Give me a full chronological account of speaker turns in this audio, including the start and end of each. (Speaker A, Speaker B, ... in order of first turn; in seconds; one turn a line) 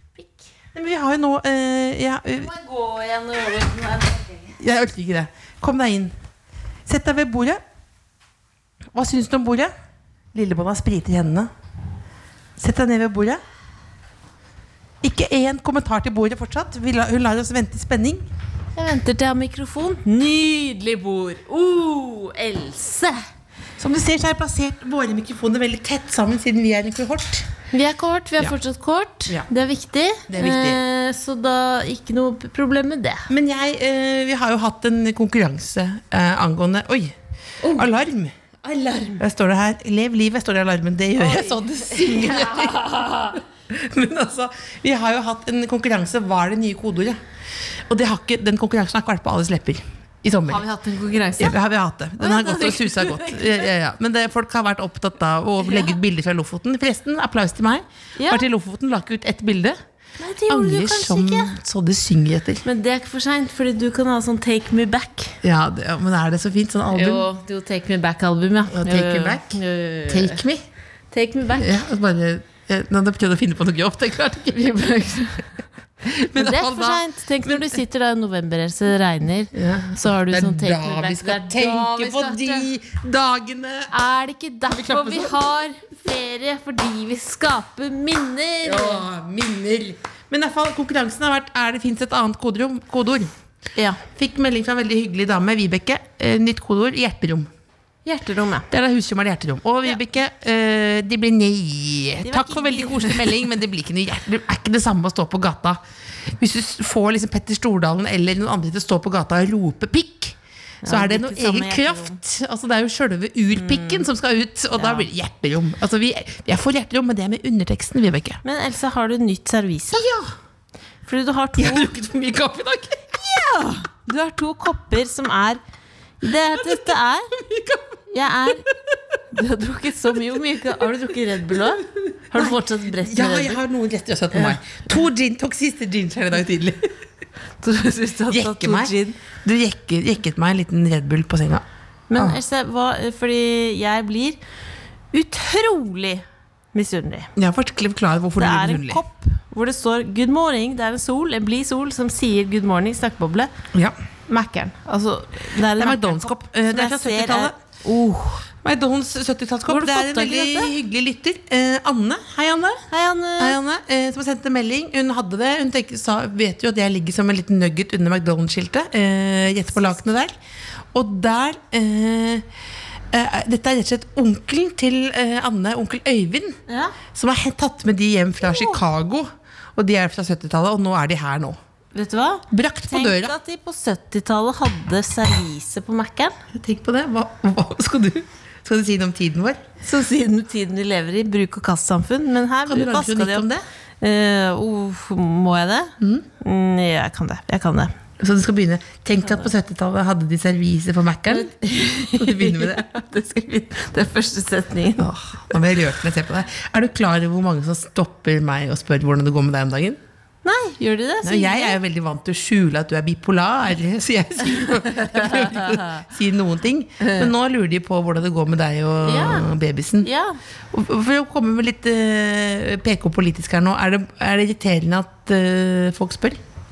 Speaker A: 0.7-2.5
Speaker B: 2.4-4.5
Speaker A: 4.6-6.1
Speaker A: 6.8-7.6
Speaker A: 8.9-9.7
Speaker A: 10.3-11.5
Speaker A: 12.6-13.4
Speaker A: 15.0-18.2
Speaker B: 18.8-23.2
Speaker A: 23.8-27.5
Speaker B: 27.7-33.3
Speaker A: 30.3-30.8
Speaker A: 33.3-37.1
Speaker B: 37.6-37.9
Speaker A: 37.7-38.3
Speaker B: 38.6-39.2
Speaker A: 39.2-42.8
Speaker B: 41.2-43.4
Speaker A: 43.6-47.2
Speaker A: 47.9-50.6
Speaker B: 50.5-51.5
Speaker A: 51.4-59.8
Speaker B: 52.2-53.6
Speaker B: 55.6-56.0
Speaker B: 58.2-58.4
Speaker B: 60.2-61.5
Speaker A: 60.5-62.6
Speaker B: 62.6-65.4
Speaker A: 65.4-67.2
Speaker B: 66.9-70.4
Speaker A: 68.7-70.6
Speaker B: 71.1-71.8
Speaker A: 71.6-74.6
Speaker B: 74.5-75.6
Speaker A: 76.0-77.8
Speaker B: 76.3-82.7
Speaker A: 79.5-83.9
Speaker B: 83.9-89.0
Speaker A: 84.7-85.4
Speaker A: 88.6-93.3
Speaker B: 93.8-94.0
Speaker A: 94.1-97.5
Speaker B: 98.0-98.7
Speaker A: 98.7-118.4
Speaker B: 102.2-103.3
Speaker B: 110.8-112.2
Speaker B: 113.5-114.0
Speaker B: 114.8-115.1
Speaker B: 118.4-120.0
Speaker A: 119.9-120.3
Speaker B: 121.0-121.9
Speaker A: 121.5-123.3
Speaker B: 123.2-125.6
Speaker B: 126.2-127.3
Speaker A: 126.5-128.0
Speaker B: 128.1-128.6
Speaker A: 128.6-129.2
Speaker B: 129.3-133.6
Speaker A: 130.1-130.8
Speaker A: 131.9-136.9
Speaker B: 137.6-139.2
Speaker A: 138.3-141.6
Speaker B: 142.1-144.4
Speaker B: 145.1-147.3
Speaker A: 147.3-149.0
Speaker B: 148.4-153.5
Speaker B: 154.3-158.4
Speaker A: 155.8-157.5
Speaker A: 158.6-162.8
Speaker B: 159.7-160.7
Speaker B: 162.9-163.6
Speaker A: 163.4-170.3
Speaker A: 170.9-172.5
Speaker A: 173.1-176.6
Speaker B: 176.7-177.0
Speaker A: 177.1-181.6
Speaker B: 178.4-178.8
Speaker B: 181.9-186.3
Speaker A: 182.5-183.3
Speaker A: 186.5-189.6
Speaker B: 189.8-193.5
Speaker A: 192.7-193.6
Speaker B: 194.0-197.9
Speaker A: 196.0-196.2
Speaker A: 198.2-202.9
Speaker B: 201.2-205.1
Speaker A: 205.0-210.0
Speaker B: 210.4-211.8
Speaker A: 211.2-220.1
Speaker B: 214.9-216.0
Speaker B: 217.0-217.3
Speaker B: 219.0-219.5
Speaker B: 220.0-220.4
Speaker A: 220.7-226.4